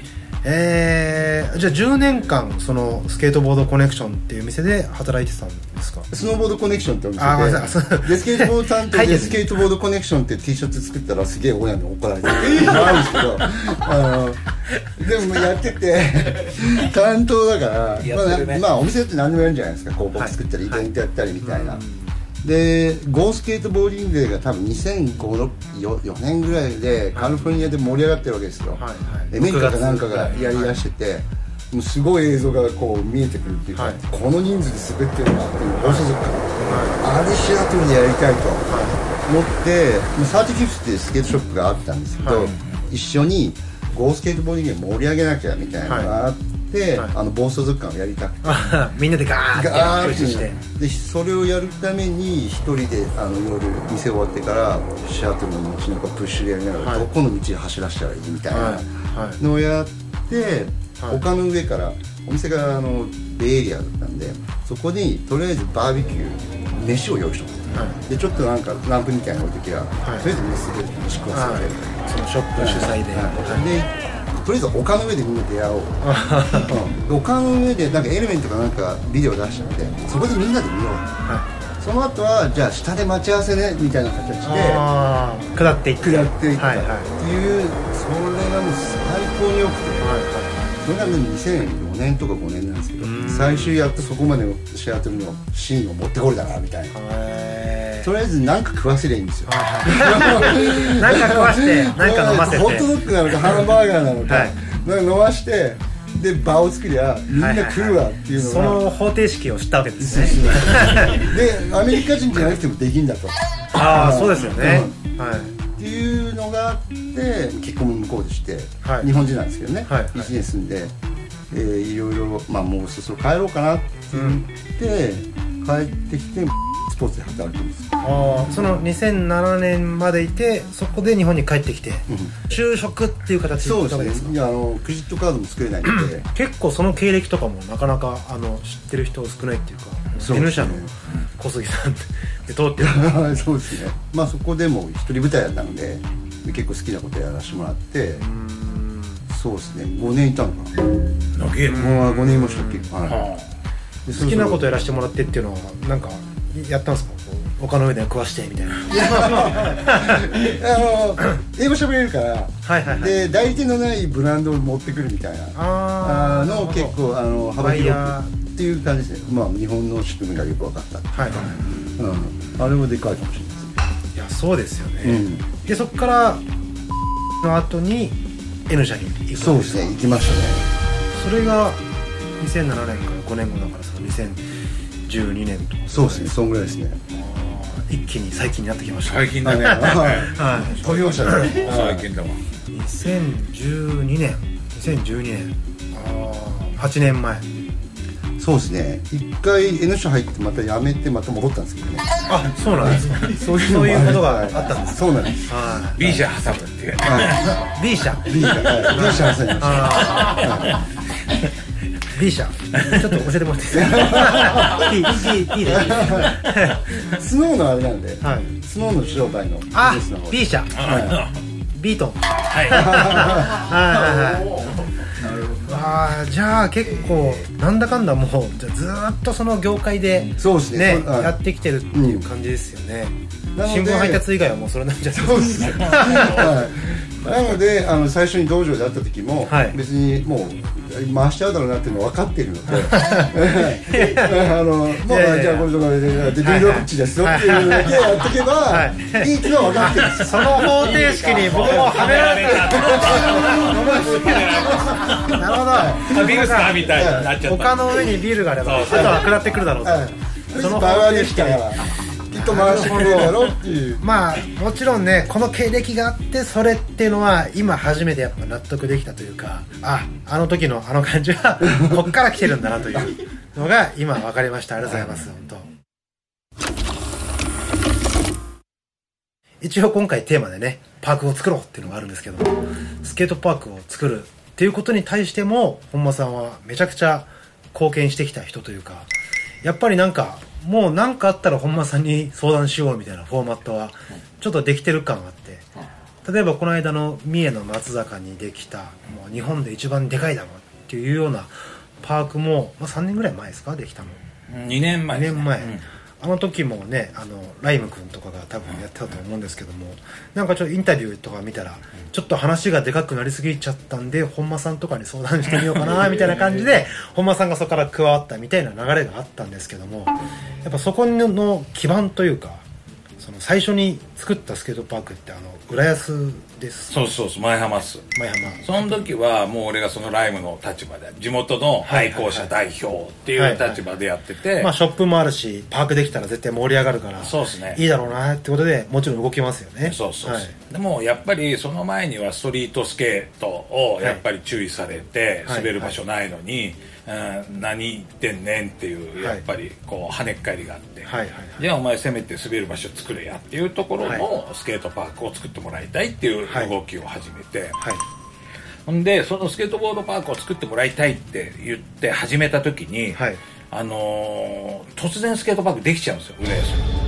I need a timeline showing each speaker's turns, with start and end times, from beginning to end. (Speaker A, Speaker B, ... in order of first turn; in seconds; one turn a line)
Speaker A: 0.4-6.1
Speaker B: 6.1-21.8
Speaker A: 7.2-9.5
Speaker C: 18.0-18.7
Speaker A: 20.2-20.9
Speaker A: 21.4-22.1
Speaker B: 22.4-48.8
Speaker A: 28.8-30.8
Speaker A: 36.6-37.0
Speaker A: 38.7-39.0
Speaker A: 42.2-42.5
Speaker A: 45.9-46.2
Speaker A: 48.4-50.6
Speaker B: 49.5-71.9
Speaker C: 50.0-50.5
Speaker A: 56.8-57.1
Speaker A: 58.5-59.4
Speaker A: 67.7-68.0
Speaker A: 71.3-73.7
Speaker B: 72.6-76.0
Speaker A: 76.0-76.7
Speaker B: 76.6-81.2
Speaker B: 81.8-84.9
Speaker A: 84.4-87.1
Speaker B: 86.0-90.1
Speaker A: 90.0-90.8
Speaker B: 90.8-96.9
Speaker A: 93.0-93.8
Speaker A: 96.9-98.1
Speaker B: 98.0-108.8
Speaker A: 99.5-102.9
Speaker A: 104.3-104.6
Speaker A: 107.3-111.3
Speaker B: 110.0-115.0
Speaker A: 113.8-115.5
Speaker B: 115.7-120.9
Speaker A: 118.8-119.1
Speaker A: 119.9-120.3
Speaker B: 121.5-128.0
Speaker A: 124.1-124.4
Speaker A: 128.0-134.3
Speaker B: 132.1-132.4
Speaker B: 133.6-136.3
Speaker A: 135.9-143.4
Speaker B: 140.2-140.9
Speaker B: 142.8-148.2
Speaker A: 148.2-149.2
Speaker B: 149.3-150.8
Speaker C: 151.3-151.9
Speaker A: 151.7-152.9
Speaker B: 151.7-153.3
Speaker C: 153.1-153.4
Speaker B: 154.1-154.7
Speaker A: 154.1-160.4
Speaker B: 158.9-173.8
Speaker A: 162.7-163.1
Speaker A: 165.6-167.0
Speaker A: 167.6-168.3
Speaker A: 171.1-171.5
Speaker A: 174.2-176.4
Speaker B: 175.0-175.5
Speaker A: 177.4-180.0
Speaker B: 179.4-180.7
Speaker A: 181.1-181.8
Speaker A: 182.4-184.4
Speaker A: 185.1-186.3
Speaker B: 185.9-187.0
Speaker A: 187.1-191.6
Speaker C: 189.1-192.4
Speaker B: 189.4-192.1
Speaker A: 192.7-197.5
Speaker B: 198.4-202.2
Speaker A: 202.3-206.0
Speaker B: 202.8-206.2
Speaker C: 206.0-207.5
Speaker B: 207.0-207.6
Speaker A: 207.4-210.6
Speaker B: 208.2-210.8
Speaker A: 212.1-216.8
Speaker C: 212.8-213.0
Speaker B: 213.7-214.9
Speaker B: 215.6-216.5
Speaker B: 217.0-221.2
Speaker A: 218.2-218.6
Speaker A: 219.7-220.9
Speaker C: 220.8-221.4
Speaker A: 221.7-224.7
Speaker C: 222.5-223.4
Speaker B: 222.7-223.6
Speaker A: 225.5-236.3
Speaker B: 230.4-231.4
Speaker B: 231.9-232.3
Speaker B: 233.6-234.2
Speaker B: 235.1-251.2
Speaker C: 235.7-236.7
Speaker A: 239.5-239.8
Speaker A: 242.9-245.7
Speaker A: 246.4-248.0
Speaker A: 248.7-261.7
Speaker C: 250.7-259.5
Speaker B: 252.7-256.2
Speaker B: 256.9-257.4
Speaker B: 259.8-264.1
Speaker A: 262.3-263.4
Speaker A: 264.0-275.7
Speaker B: 271.7-272.0
Speaker A: 279.6-289.1
Speaker A: 289.6-295.7
Speaker A: 296.2-304.2
Speaker C: 304.5-305.8
Speaker A: 305.1-322.6
Speaker C: 315.5-316.2
Speaker A: 323.2-327.0
Speaker C: 326.9-328.1
Speaker A: 328.1-328.9
Speaker C: 328.6-334.7
Speaker A: 331.9-332.5
Speaker A: 333.4-333.8
Speaker A: 334.6-340.5
Speaker C: 337.2-337.8
Speaker C: 339.8-357.8
Speaker A: 345.5-346.0
Speaker A: 349.2-349.4
Speaker A: 351.1-351.6
Speaker A: 356.5-356.7
Speaker C: 358.9-366.9
Speaker A: 363.1-363.4